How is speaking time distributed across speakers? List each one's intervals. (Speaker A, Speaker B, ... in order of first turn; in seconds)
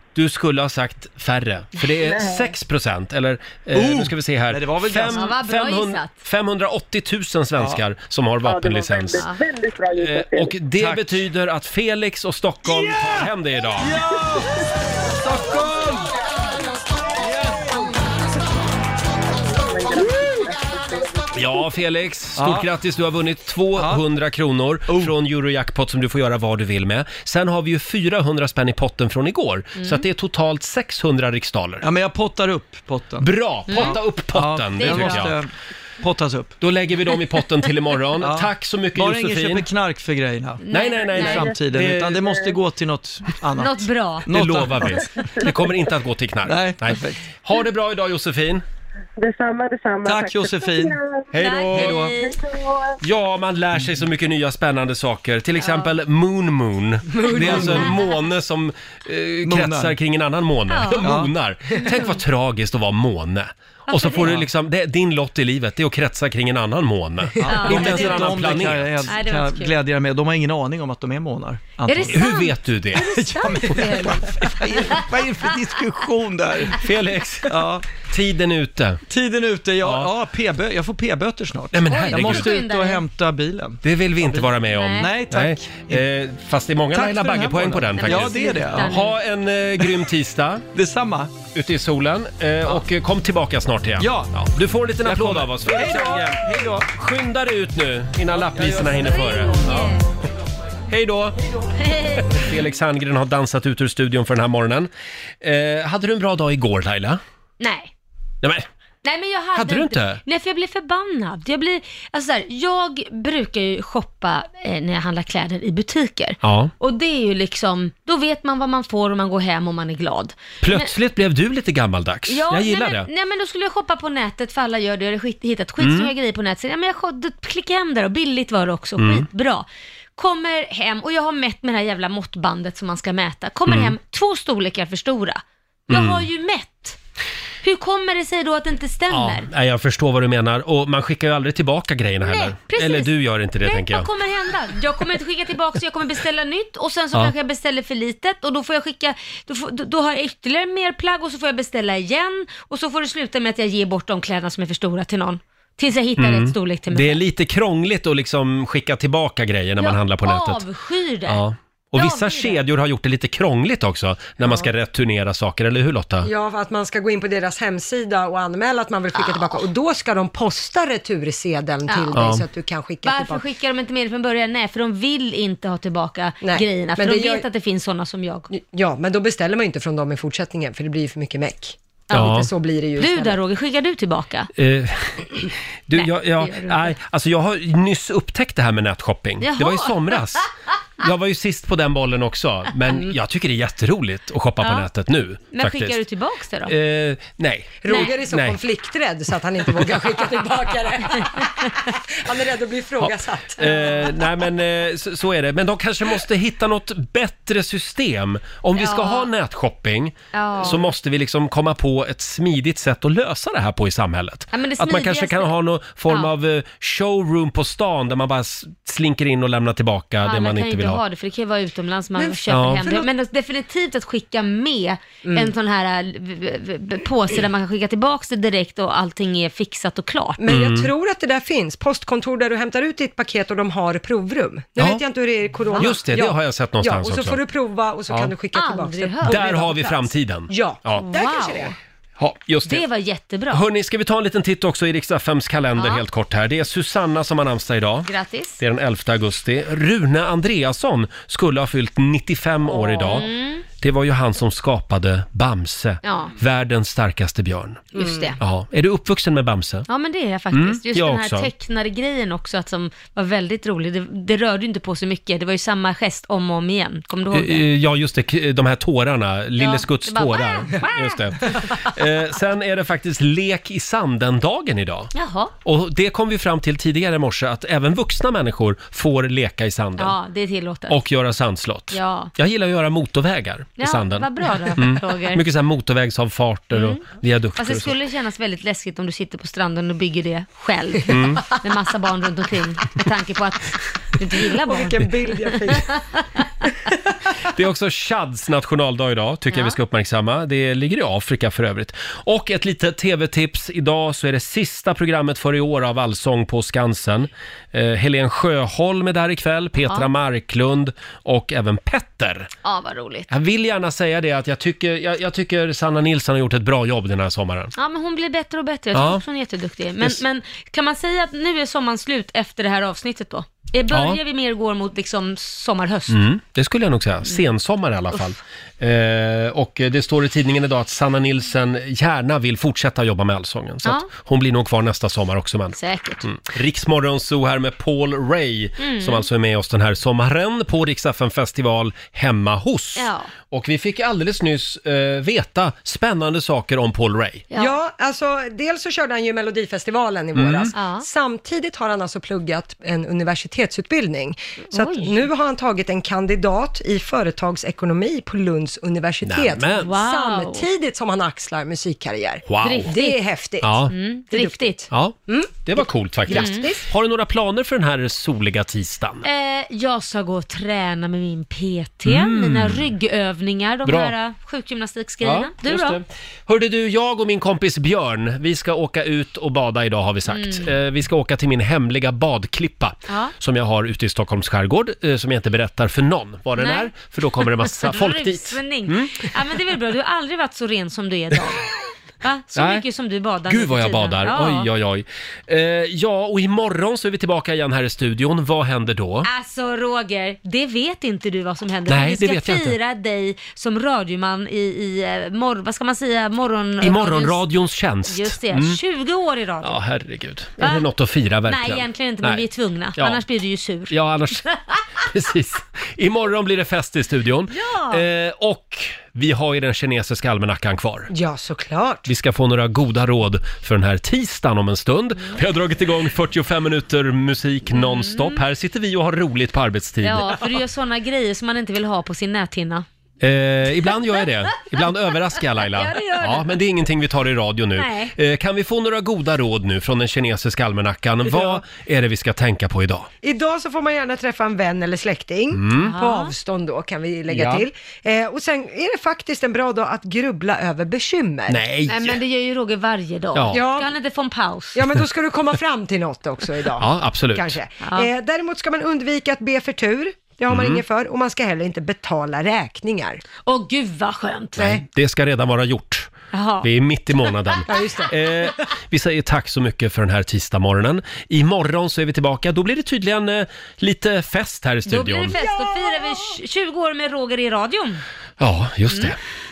Speaker A: 0.1-9.2, 9.9-13.9, 21.3-31.9, 33.2-35.4, 36.6-39.7, 40.7-42.2, 44.3-48.6, 51.3-52.2, 53.0-69.1, 72.1-73.1, 76.8-79.0, 79.8-80.1, 81.7-82.5, 83.8-90.6, 91.5-99.9, 100.9-101.4, 102.2-104.9, 105.4-107.2, 109.5-110.2, 116.4-116.7, 120.6-123.1, 125.8-126.1, 129.0-129.2, 133.7-133.9, 135.9-136.2, 139.1-144.1, 156.2-160.7, 161.2-166.3, 172.1-172.4, 182.1-182.5, 184.6-185.3, 185.9-190.5, 191.0-196.0, 196.7-198.6, 203.0-221.0, 222.5-223.1, 230.5-230.9, 235.8-237.4, 239.2-241.1, 242.2-242.8, 243.5-257.9, 258.4-259.9, 260.5-261.5, 267.3-275.1, 275.6-280.1, 280.9-287.9, 291.1-291.4, 297.5-312.5, 313.3-317.7, 318.9-319.2, 323.9-324.2, 326.1-347.4, 350.3-350.7, 359.2-359.9, 362.5-362.9, 363.6-363.9, 364.9-369.2, 372.0-372.9, 373.8-374.1, 375.2-389.3, 392.5-392.8, 393.4-399.3, 401.9-402.8, 406.8-408.8, 409.6-412.4, 413.0-413.2, 413.9-414.4, 415.0-421.1, 422.1-430.4, 433.2-443.1, 445.5-445.9, 447.3-447.6, 451.5-452.2, 453.3-453.6, 456.8-457.5, 460.5-460.8, 464.6-466.1, 466.6-475.4, 478.4-479.2
Speaker B: 2.0-2.5, 8.4-10.6, 19.5-21.6, 45.4-45.7, 49.2-51.3, 51.8-53.0
Speaker C: 3.7-5.4, 10.8-11.2, 12.7-16.1, 17.1-18.1, 22.4-22.7, 23.8-24.0, 24.9-25.1, 31.8-36.6, 38.2-45.3, 46.4-47.3, 50.0-51.0, 57.4-57.9, 59.4-60.0, 61.0-61.3, 64.2-64.5, 67.4-72.4, 73.0-76.8, 77.5-77.9, 79.1-86.0, 86.9-89.0, 90.7-91.3, 94.0-94.4, 95.0-96.9, 98.3-99.9
Speaker D: 5.1-6.1, 29.8-30.0, 33.7-34.0, 34.7-35.3, 40.6-41.5, 43.6-44.3, 51.4-52.4, 55.6-56.0, 60.7-61.1, 61.8-62.1, 63.9-64.3, 67.4-69.8, 71.8-75.1, 81.9-83.0, 84.7-85.2, 87.9-89.2, 98.9-100.1, 101.8-102.5, 107.6-107.9, 109.0-120.9, 122.3-137.0, 137.6-139.5, 142.2-157.2, 159.8-161.4, 161.9-162.6, 171.9-172.2, 173.0-178.5, 183.0-184.5, 185.9-186.9, 189.4-190.5, 194.6-194.9, 195.5-196.7, 197.9-198.1, 208.8-209.3, 210.3-210.9, 214.5-215.5, 216.1-216.3, 220.2-230.4, 238.5-239.4, 241.0-241.7, 242.7-243.6, 245.7-246.0, 248.1-248.6, 252.7-253.6, 256.0-256.3, 257.9-258.4, 259.9-267.6, 269.6-271.9, 275.1-275.5, 280.0-281.0, 281.9-282.3, 283.8-285.4, 286.7-296.4, 299.5-299.8, 309.8-310.1, 312.6-313.3, 317.8-326.2, 333.8-334.1, 335.7-336.3, 338.8-339.2, 342.9-343.3, 350.7-351.1, 354.7-355.2, 359.7-360.7, 362.6-363.2, 363.9-364.9, 366.3-366.7, 369.2-376.0, 380.3-380.7, 383.1-383.3, 386.6-391.6, 392.2-394.7, 399.2-407.4, 408.1-409.8, 410.6-410.9, 411.4-414.8, 417.5-418.0, 427.7-428.4, 430.0-432.8, 435.7-436.6, 437.7-438.1, 445.8-446.3, 451.9-454.8, 457.8-458.1, 463.4-464.8, 466.3-466.7, 467.2-467.6, 474.9-478.0, 478.9-479.1
Speaker E: 57.1-57.9, 166.2-173.4, 176.4-177.4, 178.5-183.4, 197.8-204.1, 225.2-225.5, 230.4-241.7, 257.9-258.3, 294.5-295.9, 347.5-366.9, 421.1-422.1, 443.2-451.6, 453.5-453.9, 454.7-463.2, 464.6-464.8, 467.7-468.1, 475.6-476.1